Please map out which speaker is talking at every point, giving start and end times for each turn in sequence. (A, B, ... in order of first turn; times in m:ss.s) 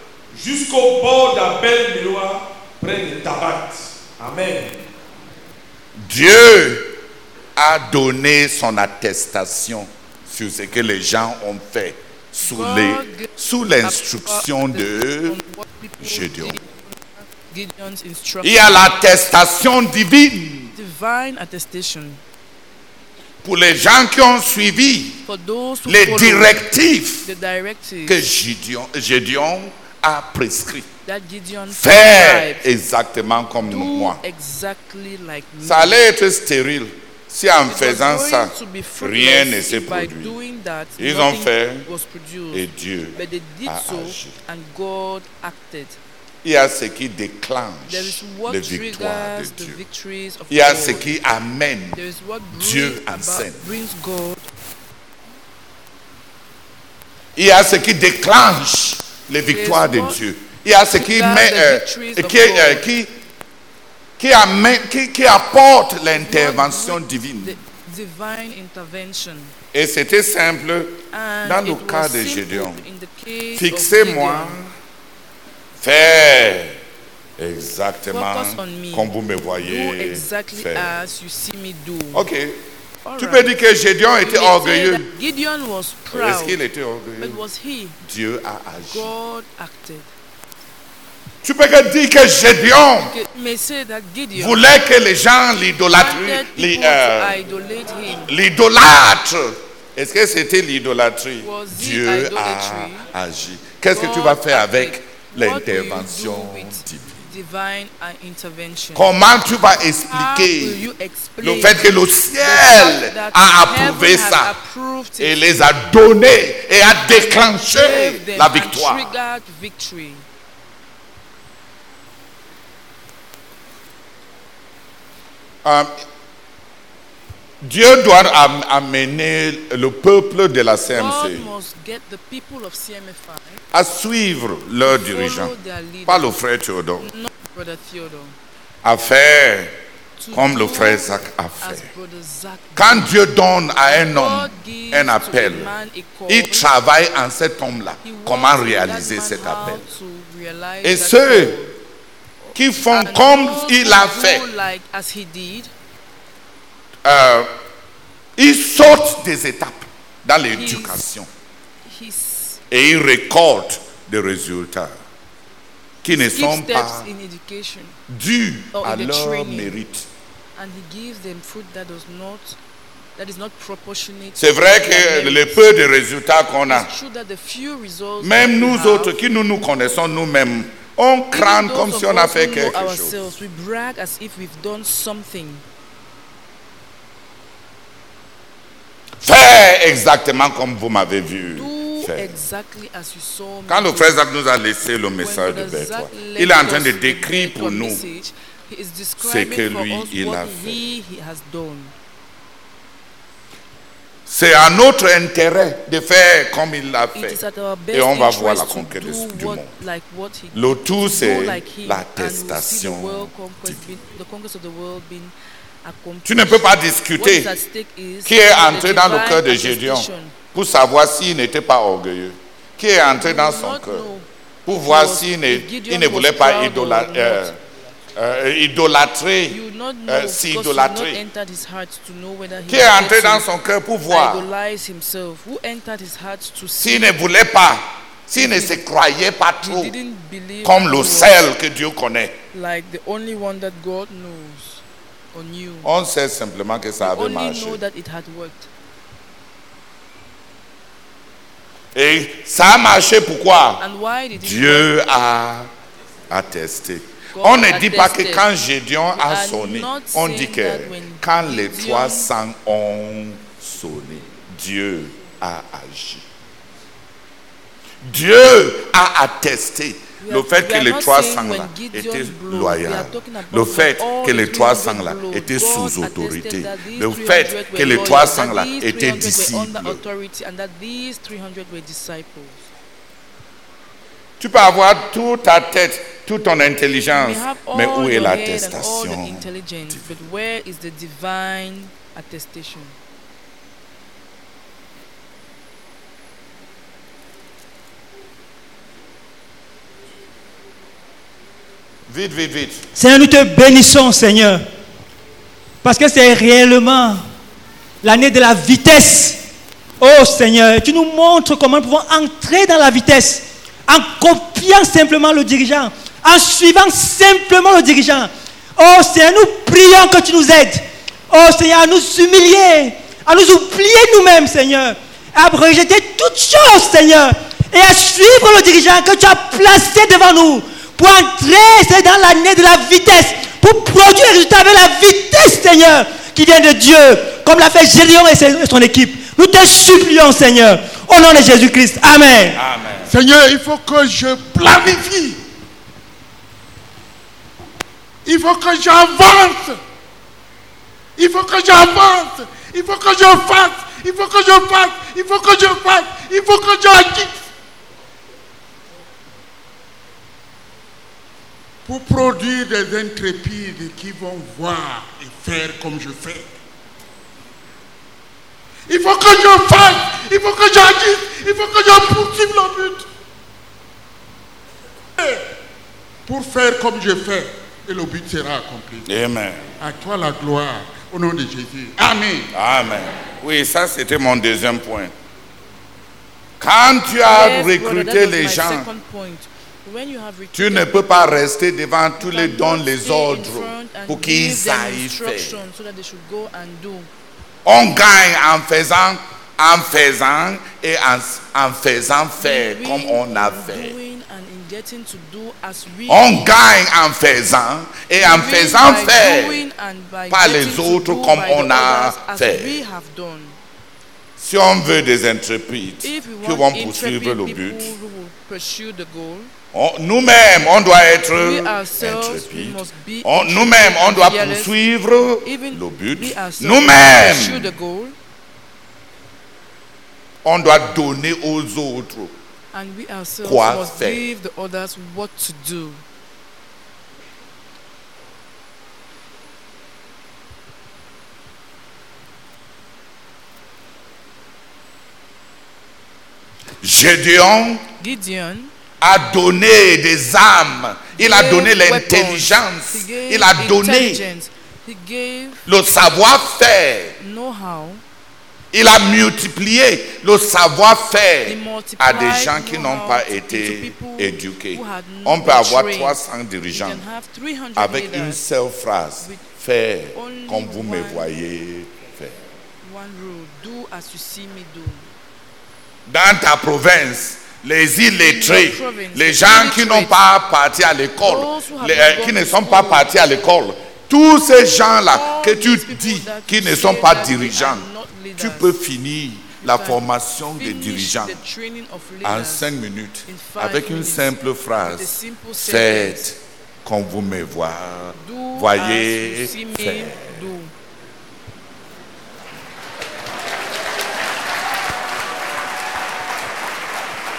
0:00.3-0:04.8 A
0:06.0-0:06.9 B
0:07.6-0:15.4 B
0:12.4-0:19.0 C
0:16.0-0:16.6 B
0:18.4-0:20.7 B
0:20.7-0:22.2 C
0:23.4-0:25.2 B
0:25.2-0:26.6 C
0:25.9-0:27.3 B
0:27.2-0:28.3 C
0:28.1-0:30.9 B
0:31.0-0:32.6 C
0:31.7-0:34.2 B
0:33.6-0:36.0 C
0:35.6-0:40.4 B
0:37.6-0:46.0 C
0:41.0-0:41.9 B
0:42.5-0:44.4 B
0:46.4-0:49.8 B
0:47.9-0:51.2 C
0:50.5-0:52.0 B
0:51.9-0:54.5 C
0:52.5-0:53.7 B
0:57.4-1:03.1 B
0:59.5-1:00.2 C
1:00.9-1:02.9 C
1:04.2-1:07.6 B
1:06.2-1:09.5 C
1:09.7-1:12.8 B
1:11.1-1:14.6 C
1:13.6-1:14.7 B
1:15.8-1:16.8 B
1:17.4-1:20.9 B
1:18.1-1:22.3 C
1:22.1-1:22.6 B
1:23.0-1:23.5 C
1:23.2-1:25.0 B
1:24.2-1:26.6 C
1:26.1-1:27.4 B
1:27.2-1:28.0 C
1:28.0-1:29.1 B
1:28.8-1:30.1 C
1:31.4-1:33.1 B
1:32.8-1:34.7 C
1:34.3-1:37.4 B
1:35.9-1:38.4 C
1:38.1-1:47.2 B
1:41.4-1:43.1 C
1:43.9-1:55.4 C
1:49.0-1:50.9 B
1:51.4-1:54.6 B
1:55.2-1:59.2 B
1:57.1-2:00.2 C
2:05.6-2:05.9 B
2:07.6-2:11.5 B
2:10.9-2:13.6 C
2:13.7-2:15.5 B
2:14.8-2:16.4 C
2:16.1-2:17.1 B
2:17.0-2:18.4 C
2:18.8-2:19.8 B
2:20.2-2:26.7 C
2:20.3-2:21.9 B
2:22.8-2:25.7 B
2:26.3-2:29.8 B
2:28.0-2:31.8 C
2:30.8-2:31.6 B
2:32.4-2:35.7 C
2:32.6-2:34.5 B
2:37.0-2:37.5 B
2:38.4-2:41.3 B
2:40.5-2:41.0 C
2:41.8-2:42.6 C
2:42.7-2:45.0 B
2:46.0-2:47.1 B
2:46.2-2:48.0 C
2:48.1-2:50.1 B
2:48.7-2:49.8 C
2:50.6-2:52.6 C
2:53.2-2:55.8 C
2:54.4-2:56.9 B
2:56.7-2:59.2 C
2:58.2-3:03.4 B
3:01.3-3:05.6 C
3:09.2-3:12.3 B
3:11.5-3:14.2 C
3:13.7-3:18.0 B
3:15.2-3:21.9 C
3:19.2-3:20.8 B
3:24.3-3:27.4 B
3:27.1-3:40.4 C
3:27.9-3:29.7 B
3:30.5-3:33.9 B
3:36.2-3:37.5 B
3:38.3-3:44.1 B
3:43.2-3:47.6 C
3:44.7-3:47.6 B
3:48.2-3:51.2 B
3:49.5-3:53.5 C
3:52.7-3:54.5 B
3:54.1-3:57.2 C
3:56.8-3:59.9 B
3:58.4-3:58.8 C
3:59.6-4:01.4 C
4:00.6-4:02.4 B
4:02.5-4:05.9 C
4:05.8-4:07.8 B
4:07.0-4:08.7 C
4:11.9-4:13.8 B
4:13.8-4:14.9 C
4:14.4-4:15.7 B
4:16.3-4:26.2 B
4:17.3-4:18.5 C
4:19.2-4:22.3 C
4:28.0-4:40.0 B
4:30.2-4:42.7 C
4:44.4-4:50.0 B
4:47.1-4:53.0 C
5:02.1-5:02.8 B
5:03.0-5:04.6 D
5:05.8-5:07.2 D
5:08.0-5:09.4 D
5:10.0-5:42.6 D
5:42.5-5:43.1 B
5:43.0-5:45.4 E
5:48.2-5:49.8 E
5:51.2-5:57.5 E
6:01.8-6:06.5 E
6:08.9-6:13.0 E
6:15.2-6:15.4 E
6:16.3-6:19.1 E
6:19.1-6:19.7 B
6:19.8-6:22.5 E
6:22.5-6:25.1 B
6:26.6-6:28.9 B
6:27.3-6:31.5 C
6:30.5-6:35.6 B
6:32.2-6:37.1 C
6:37.6-6:44.0 B
6:42.4-6:46.6 C
6:46.1-6:49.6 B
6:48.2-6:53.6 C
6:50.3-6:52.8 B
6:54.4-6:57.9 B
6:56.0-6:59.5 C
6:59.7-7:07.7 B
7:01.4-7:08.2 C
7:10.4-7:12.4 B
7:12.7-7:16.0 C
7:13.4-7:14.2 B
7:26.8-7:27.8 B
7:28.0-7:28.7 C
7:29.0-7:34.2 B
7:31.2-7:35.7 C
7:35.7-7:37.2 B
7:37.2-7:38.0 C
7:38.7-7:47.0 B
7:41.5-7:48.4 C
7:47.8-7:52.4 B
7:49.2-7:49.5 C
7:50.1-7:51.3 C
7:52.8-7:55.1 C
7:56.1-8:11.4 B
7:58.2-8:00.2 C
8:01.2-8:03.3 C
8:05.1-8:08.8 C
8:09.6-8:12.7 C
8:12.2-8:20.5 B
8:13.2-8:16.3 C
8:18.1-8:20.7 C